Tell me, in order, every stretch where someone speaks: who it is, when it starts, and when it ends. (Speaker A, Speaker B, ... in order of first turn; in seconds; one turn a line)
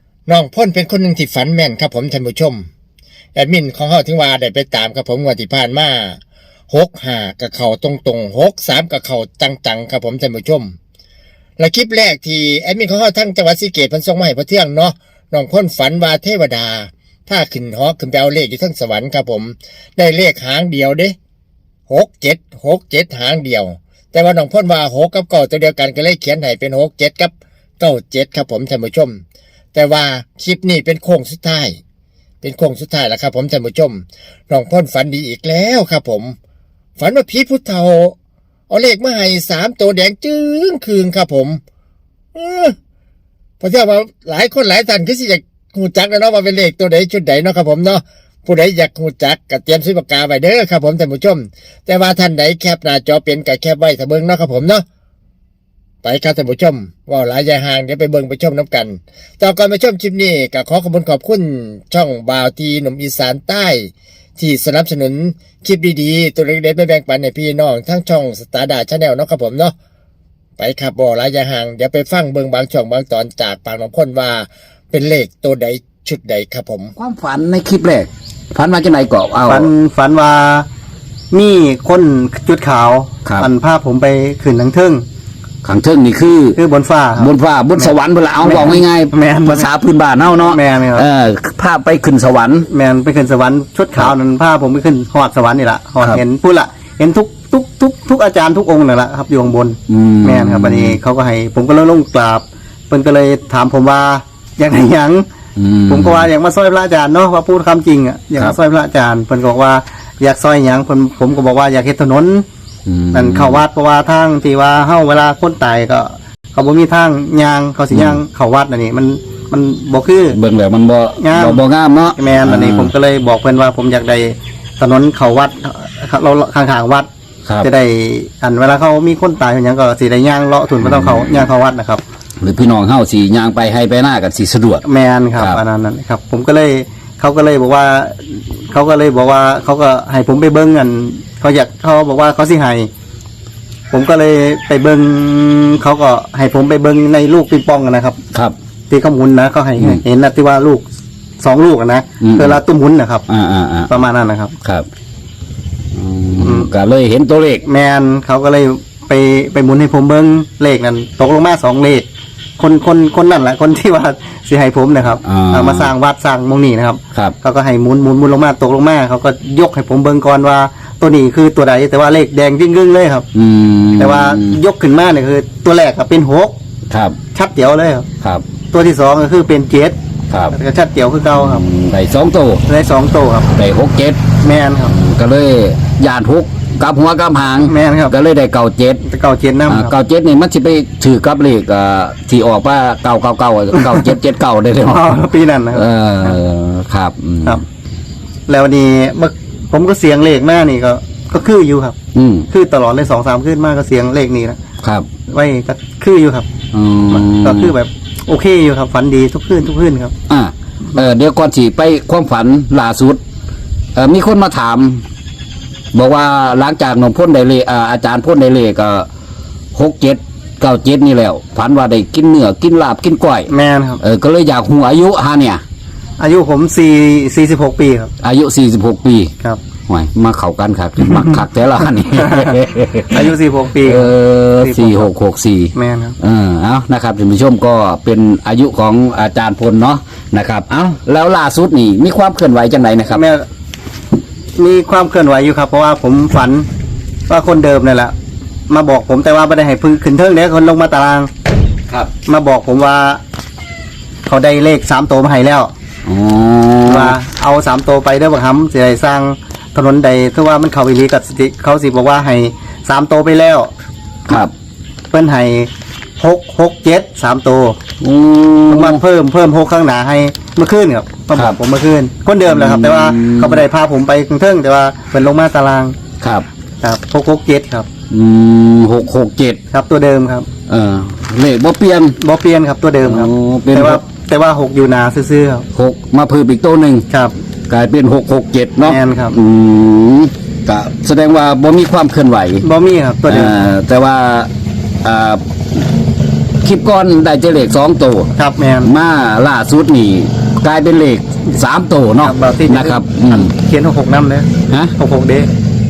Speaker A: 0.3-2.7
Speaker A: 3.4-10.8
Speaker A: 11.6-21.1
Speaker A: 21.9-29.2
Speaker A: 29.7-31.8
Speaker A: 32.4-36.4
Speaker A: 37.0-38.1
Speaker A: 38.7-41.6
Speaker A: 42.4-42.8
Speaker A: 43.6-54.8
Speaker A: 56.0-69.7
Speaker A: 70.6-76.9
Speaker B: 77.0-79.7
Speaker C: 79.5-80.7
Speaker C: 81.3-85.0
Speaker B: 85.6-86.6
Speaker C: 86.6-89.7
Speaker B: 87.2-92.7
Speaker C: 90.4-91.0
Speaker C: 92.7-105.2
Speaker B: 99.9-101.0
Speaker B: 105.6-106.3
Speaker C: 105.9-112.5
Speaker B: 112.8-113.7
Speaker C: 113.1-120.4
Speaker B: 117.9-118.2
Speaker B: 120.3-123.0
Speaker C: 121.2-121.6
Speaker C: 122.2-127.1
Speaker C: 127.6-132.0
Speaker B: 130.8-131.5
Speaker B: 132.4-134.8
Speaker C: 134.8-142.9
Speaker C: 143.9-148.2
Speaker C: 148.9-150.8
Speaker C: 151.4-153.2
Speaker B: 152.2-152.6
Speaker B: 153.3-154.0
Speaker C: 153.9-154.6
Speaker B: 154.6-154.9
Speaker B: 155.9-157.7
Speaker C: 156.4-156.7
Speaker C: 157.7-162.1
Speaker C: 162.6-173.3
Speaker B: 165.2-165.9
Speaker B: 173.3-174.6
Speaker C: 174.0-176.6
Speaker B: 176.9-177.2
Speaker C: 177.3-178.1
Speaker B: 178.2-178.5
Speaker C: 178.7-180.0
Speaker B: 180.3-180.6
Speaker C: 180.5-181.7
Speaker B: 181.4-182.7
Speaker C: 182.7-183.5
Speaker B: 183.5-184.2
Speaker C: 184.4-184.9
Speaker B: 184.9-189.0
Speaker C: 187.6-188.2
Speaker C: 189.1-189.9
Speaker B: 189.7-197.6
Speaker C: 193.7-194.1
Speaker C: 194.8-196.4
Speaker C: 198.5-201.9
Speaker B: 202.1-202.5
Speaker C: 202.5-204.6
Speaker B: 204.8-205.1
Speaker C: 205.3-206.5
Speaker B: 206.7-207.8
Speaker C: 207.1-210.1
Speaker B: 210.3-213.2
Speaker B: 213.9-215.1
Speaker B: 215.9-219.1
Speaker B: 219.7-225.6
Speaker C: 223.5-224.0
Speaker C: 226.2-228.1
Speaker B: 228.2-229.3
Speaker B: 229.9-233.3
Speaker C: 231.1-235.1
Speaker B: 233.8-243.2
Speaker C: 235.8-236.2
Speaker C: 243.1-243.4
Speaker C: 244.6-246.7
Speaker C: 247.3-248.2
Speaker C: 248.7-251.3
Speaker C: 252.3-253.2
Speaker C: 254.3-255.7
Speaker B: 256.1-257.1
Speaker C: 256.9-263.7
Speaker B: 264.3-264.5
Speaker C: 265.1-267.8
Speaker B: 268.0-269.0
Speaker C: 268.7-276.0
Speaker B: 272.4-273.6
Speaker B: 276.2-276.5
Speaker C: 276.8-277.9
Speaker B: 278.1-279.6
Speaker C: 279.7-280.5
Speaker B: 280.7-282.2
Speaker C: 282.2-285.7
Speaker B: 283.0-284.0
Speaker B: 285.7-287.1
Speaker C: 287.1-287.4
Speaker B: 287.7-292.6
Speaker C: 288.9-289.4
Speaker C: 292.6-293.6
Speaker B: 293.3-294.5
Speaker B: 295.0-295.9
Speaker B: 296.6-303.5
Speaker C: 298.4-298.9
Speaker C: 302.2-305.5
Speaker B: 304.7-305.0